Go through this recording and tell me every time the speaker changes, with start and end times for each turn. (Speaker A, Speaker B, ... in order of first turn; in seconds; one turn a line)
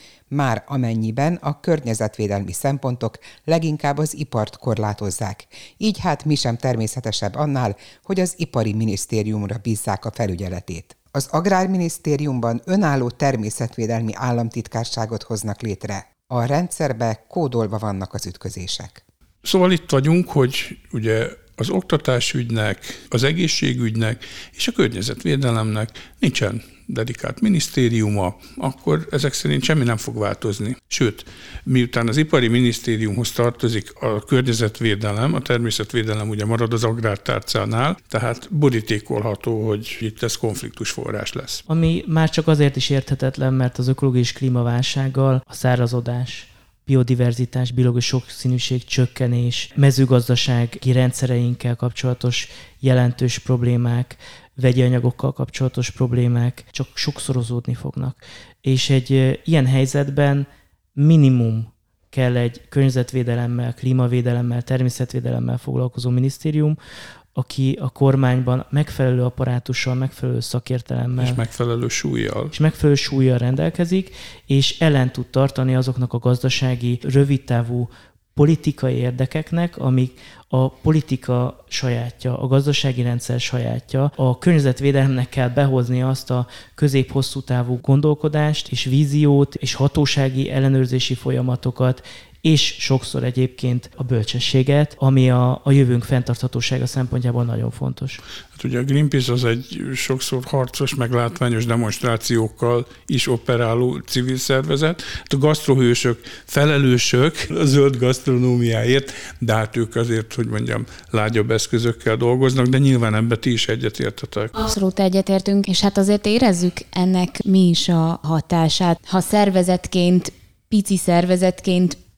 Speaker A: 0.3-19.0
Speaker B: 19.4-41.6
Speaker C: 41.7-66.8
Speaker C: 67.3-71.4
Speaker B: 71.2-72.5
Speaker C: 72.5-98.2
Speaker B: 98.6-114.5
Speaker D: 114.6-122.0